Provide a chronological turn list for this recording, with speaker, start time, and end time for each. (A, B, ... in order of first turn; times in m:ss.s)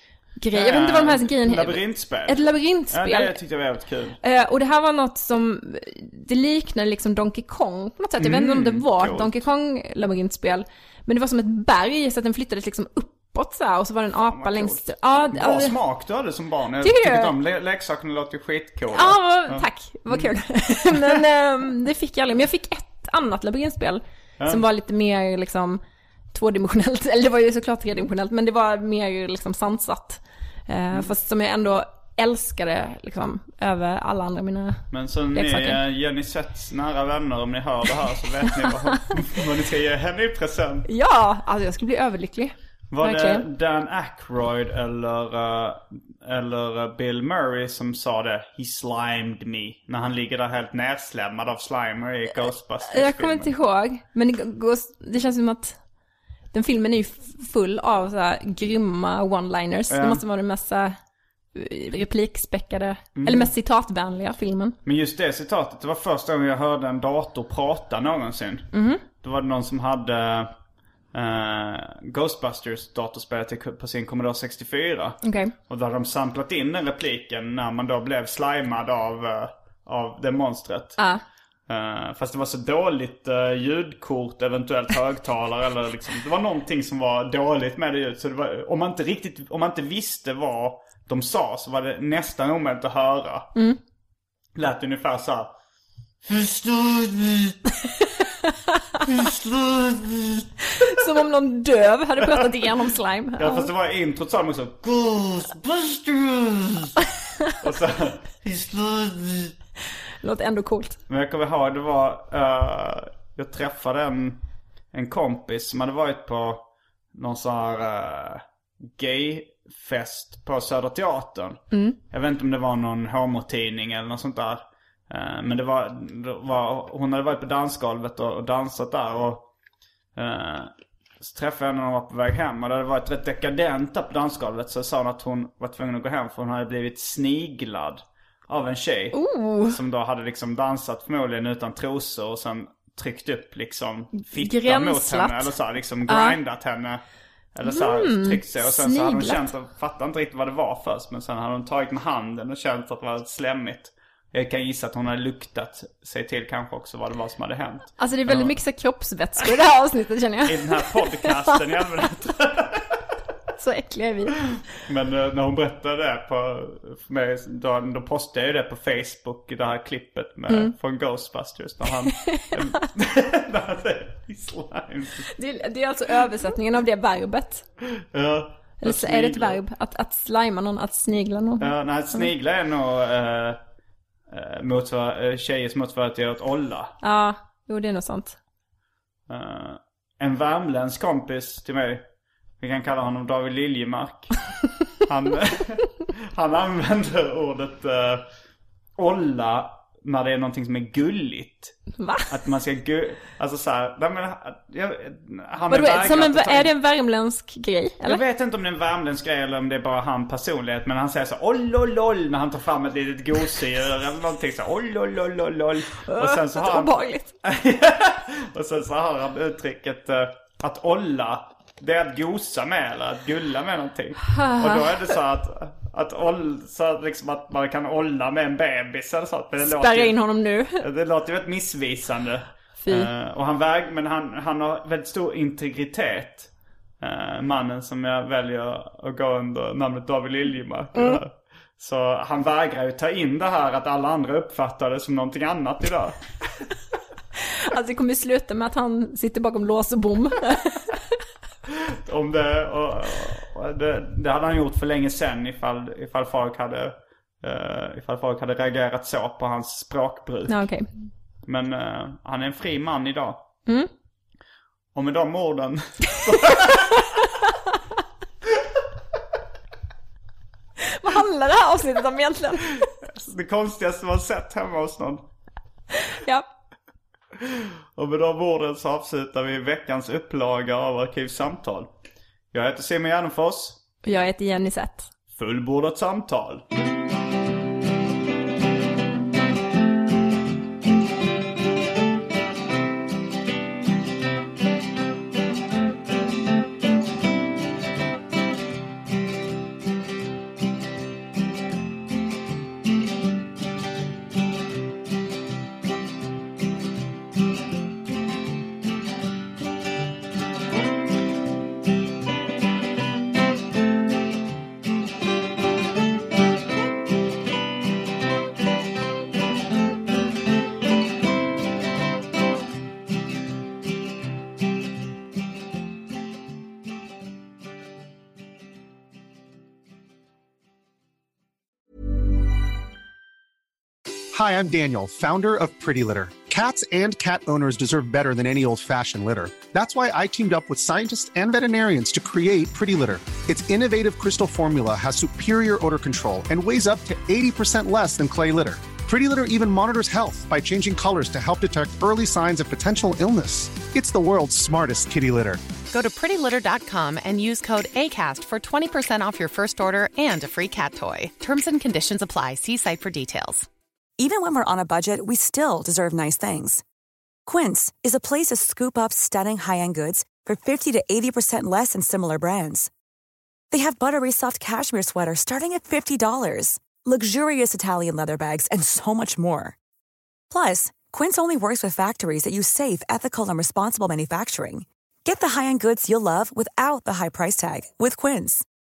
0:00.4-0:03.4 A
0:00.5-0:04.2 B
0:04.2-0:15.8 A
0:08.2-0:09.4 B
0:14.3-0:20.3 B
0:16.8-0:17.3 A
0:18.9-0:25.8 A
0:26.3-0:35.8 A
0:34.9-0:40.9 B
0:40.9-0:43.5 A
0:42.9-0:53.5 B
0:52.8-0:55.8 A
0:56.5-1:01.0 A
0:59.9-1:00.2 B
1:01.5-1:04.8 A
1:03.2-1:03.5 B
1:04.8-1:10.5 B
1:08.7-1:09.0 A
1:11.1-1:21.0 B
1:15.2-1:15.5 A
1:21.7-1:33.5 B
1:34.6-1:35.5 B
1:36.2-1:37.6 B
1:38.4-1:39.0 A
1:39.0-1:40.5 B
1:40.7-1:43.7 A
1:42.2-1:42.7 B
1:43.4-1:47.0 B
1:47.6-1:49.6 B
1:50.2-1:51.0 A
1:51.1-1:54.4 B
1:54.9-2:09.5 B
2:01.7-2:02.0 A
2:10.2-2:27.0 B
2:19.1-2:19.8 A
2:24.1-2:25.5 A
2:26.1-2:26.4 A
2:27.5-2:38.6 B
2:27.6-2:29.5 A
2:38.0-2:41.5 A
2:40.4-2:43.0 B
2:43.6-2:44.4 A
2:44.8-2:55.3 B
2:52.1-2:52.6 A
2:55.3-2:57.7 A
2:57.9-2:59.6 B
2:58.8-3:02.3 A
3:01.6-3:03.6 B
3:04.3-3:07.0 B
3:07.0-3:08.4 A
3:09.3-3:12.0 B
3:12.6-3:14.3 B
3:15.0-3:18.3 B
3:19.0-3:21.8 B
3:22.0-3:22.3 A
3:22.3-3:26.7 B
3:25.7-3:28.2 A
3:28.0-3:50.2 B
3:36.0-3:37.3 A
3:44.2-3:45.2 A
3:49.6-3:50.9 A
3:50.8-4:06.6 B
3:52.8-3:53.1 A
4:07.5-4:11.0 A
4:11.9-4:20.7 B
4:20.5-4:21.0 A
4:21.4-4:23.4 B
4:24.9-4:27.0 B
4:26.5-4:27.2 A
4:30.8-4:32.9 A
4:33.0-4:35.3 B
4:36.0-4:36.5 A
4:37.4-4:41.9 B
4:42.5-4:43.8 B
4:44.0-4:45.1 A
4:45.3-4:46.6 B
5:34.3-5:55.6 C
5:55.9-6:03.7 D
6:04.2-6:06.8 E
6:07.5-6:12.9 E
6:13.7-6:19.8 E
6:20.5-6:28.6 E